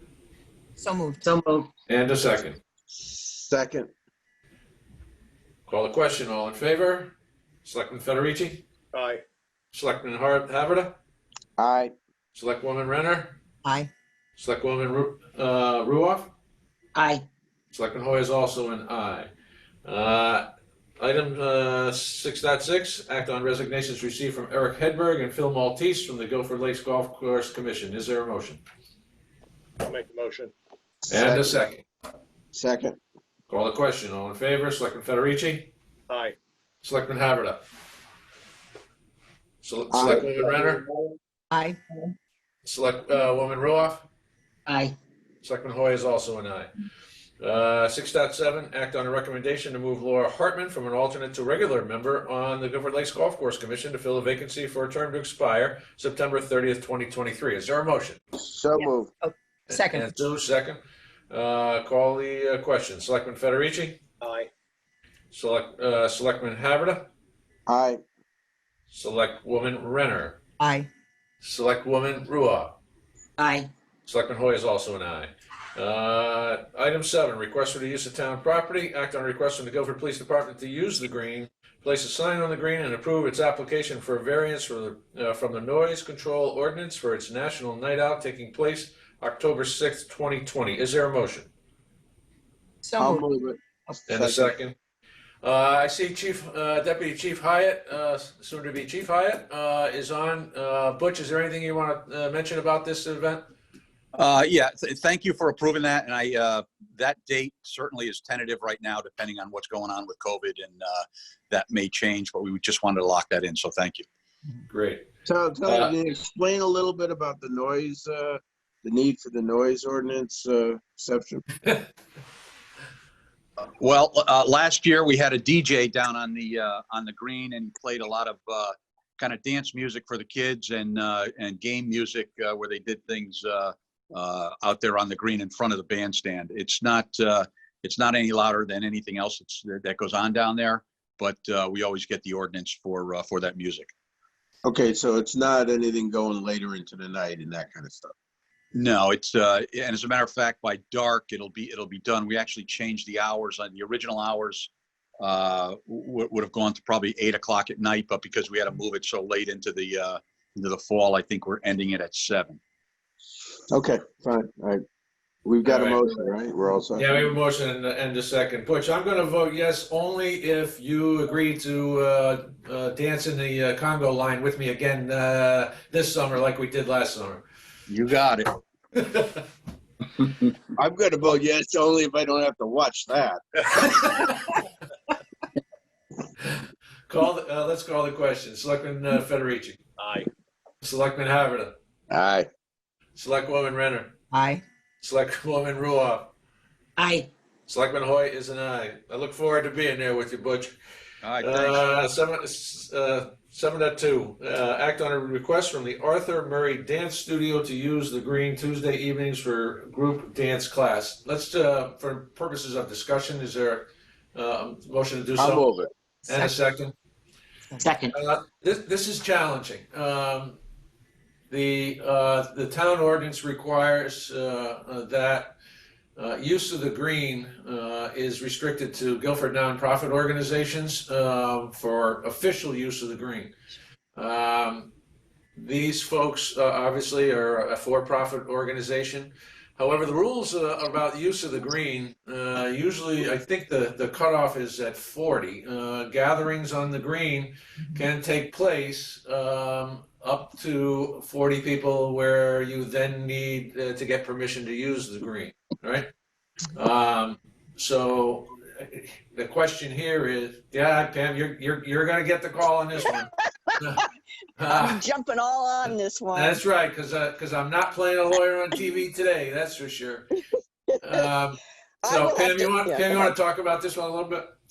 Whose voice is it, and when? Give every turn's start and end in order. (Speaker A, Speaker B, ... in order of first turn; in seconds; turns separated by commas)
Speaker A: 0.8-1.3, Speaker B: 1.2-1.7, Speaker C: 1.9-2.6, Speaker D: 2.9-3.9, Speaker C: 5.7-7.1, Speaker C: 7.6-8.6, Speaker E: 8.9-9.2, Speaker C: 9.7-10.9, Speaker D: 11.6-11.9, Speaker C: 12.3-13.3, Speaker A: 13.6-13.9, Speaker C: 14.4-16.3, Speaker B: 16.9-17.2, Speaker C: 17.7-19.3, Speaker C: 19.8-20.5, Speaker C: 21.0-28.6, Speaker E: 29.9-30.5, Speaker C: 31.1-31.8, Speaker D: 31.1-31.6, Speaker D: 32.5-33.0, Speaker C: 33.5-35.7, Speaker E: 36.1-36.4, Speaker C: 36.8-37.6, Speaker C: 39.6-40.8, Speaker D: 39.9-41.1, Speaker A: 41.5-42.0, Speaker C: 42.6-44.0, Speaker B: 44.6-45.0, Speaker C: 45.4-46.7, Speaker C: 47.4-58.2, Speaker D: 58.4-59.1, Speaker A: 59.2-60.2, Speaker C: 59.7-64.0, Speaker E: 64.2-64.5, Speaker C: 65.3-67.1, Speaker D: 67.7-68.0, Speaker C: 68.9-70.4, Speaker A: 70.6-70.9, Speaker C: 71.4-72.8, Speaker B: 73.4-73.7, Speaker C: 74.0-91.5, Speaker A: 92.8-93.2, Speaker D: 93.0-94.5, Speaker C: 94.1-94.7, Speaker C: 95.4-103.4, Speaker F: 104.1-114.0, Speaker C: 114.7-115.1, Speaker D: 115.2-121.4, Speaker C: 115.6-115.9, Speaker F: 123.8-143.9, Speaker D: 144.6-148.1, Speaker F: 148.7-154.7, Speaker F: 155.2-162.6, Speaker D: 163.7-164.8, Speaker D: 165.4-167.2, Speaker C: 165.6-166.0, Speaker C: 167.0-177.4, Speaker F: 177.9-178.5, Speaker C: 178.9-179.4, Speaker D: 180.8-184.1, Speaker C: 183.8-184.2, Speaker C: 187.1-189.8, Speaker E: 190.0-190.3, Speaker C: 190.8-191.7, Speaker D: 192.1-192.5, Speaker C: 193.2-194.1, Speaker A: 194.3-194.6, Speaker C: 195.0-196.3, Speaker B: 197.0-197.3, Speaker C: 197.7-200.7, Speaker F: 201.2-201.8, Speaker C: 201.4-215.6, Speaker D: 215.3-215.9, Speaker A: 216.2-216.5, Speaker C: 216.3-216.9, Speaker B: 217.8-218.2, Speaker C: 218.1-220.6, Speaker C: 221.5-225.5, Speaker C: 226.2-233.5, Speaker C: 234.1-234.9, Speaker C: 235.6-256.1, Speaker C: 256.7-264.1, Speaker C: 264.6-265.0, Speaker G: 264.7-266.6, Speaker C: 265.9-270.3, Speaker G: 270.9-271.2, Speaker C: 271.0-274.5, Speaker G: 272.0-273.3